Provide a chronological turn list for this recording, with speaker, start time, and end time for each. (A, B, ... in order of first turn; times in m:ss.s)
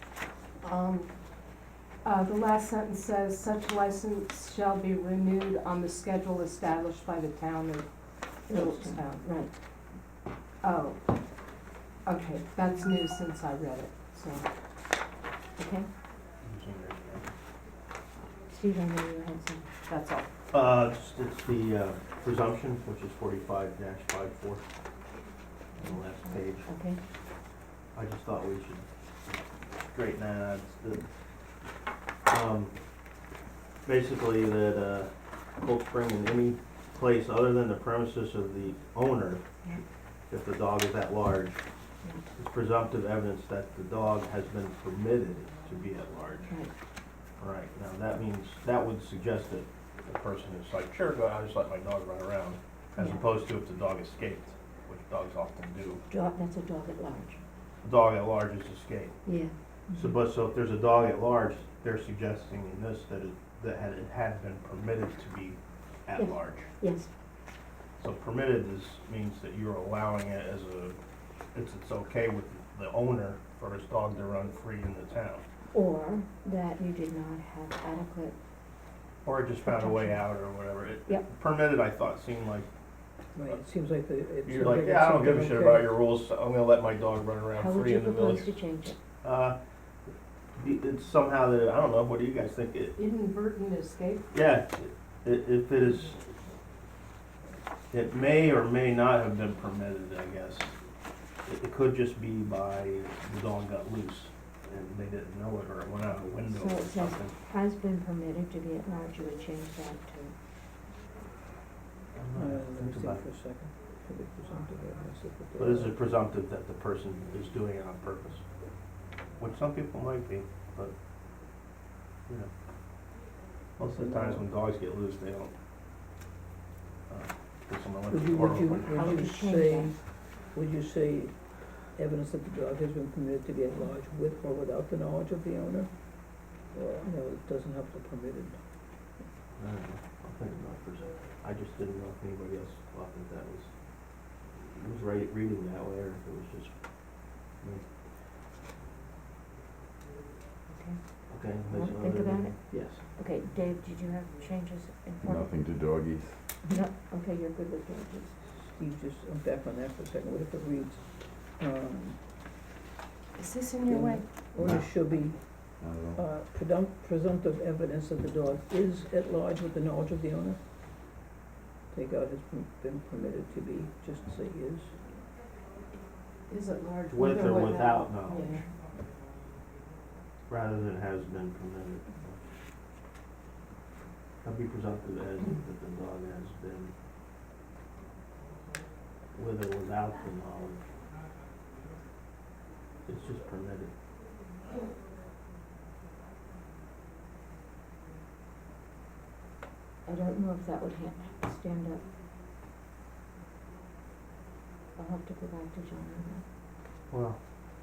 0:00.6-0:01.1 A
0:02.0-0:07.8 A
0:08.5-0:09.5 B
0:08.5-0:09.3 A
0:10.6-0:11.0 A
0:12.0-0:14.4 A
0:15.6-0:15.9 B
0:16.4-0:17.3 C
0:18.5-0:19.7 B
0:19.9-0:20.2 A
0:20.5-0:24.6 C
0:25.8-0:26.7 C
0:25.8-0:27.0 B
0:27.9-0:28.8 C
0:29.7-0:31.0 C
0:32.2-0:32.7 C
0:33.8-0:41.6 C
0:42.4-0:46.5 C
0:47.4-0:56.0 C
0:53.0-0:53.2 B
0:56.1-0:57.4 B
0:57.8-0:59.2 C
0:59.2-0:59.5 B
0:59.9-1:06.7 C
1:06.2-1:07.1 B
1:08.0-1:10.9 C
1:11.5-1:15.4 C
1:15.7-1:18.4 B
1:19.2-1:22.7 C
1:19.6-1:20.2 B
1:23.4-1:25.9 D
1:24.4-1:28.6 C
1:27.5-1:29.0 B
1:29.2-1:29.6 C
1:30.6-1:32.9 C
1:33.0-1:34.2 A
1:34.3-1:36.3 C
1:37.9-1:40.7 C
1:41.4-1:47.3 C
1:46.5-1:50.3 B
1:52.2-1:53.2 C
1:52.3-1:55.9 D
1:55.6-1:58.4 C
1:59.4-2:00.9 C
2:03.8-2:05.5 C
2:03.9-2:04.4 D
2:07.1-2:09.0 C
2:08.1-2:18.6 D
2:08.9-2:09.9 B
2:19.6-2:23.7 C
2:24.5-2:26.7 C
2:27.6-2:27.9 C
2:30.7-2:35.5 B
2:31.3-2:33.0 C
2:35.2-2:36.4 E
2:36.7-2:38.4 B
2:38.6-2:42.2 D
2:43.4-2:44.2 A
2:43.8-2:50.6 D
2:44.6-2:44.8 E
2:45.8-2:46.2 E
2:51.9-2:54.9 D
2:56.5-2:58.6 A
2:57.1-2:58.5 C
3:00.5-3:02.4 C
3:04.4-3:06.9 C
3:09.3-3:10.8 C
3:13.1-3:13.9 C
3:20.0-3:22.0 B
3:25.0-3:26.4 B
3:27.1-3:27.4 C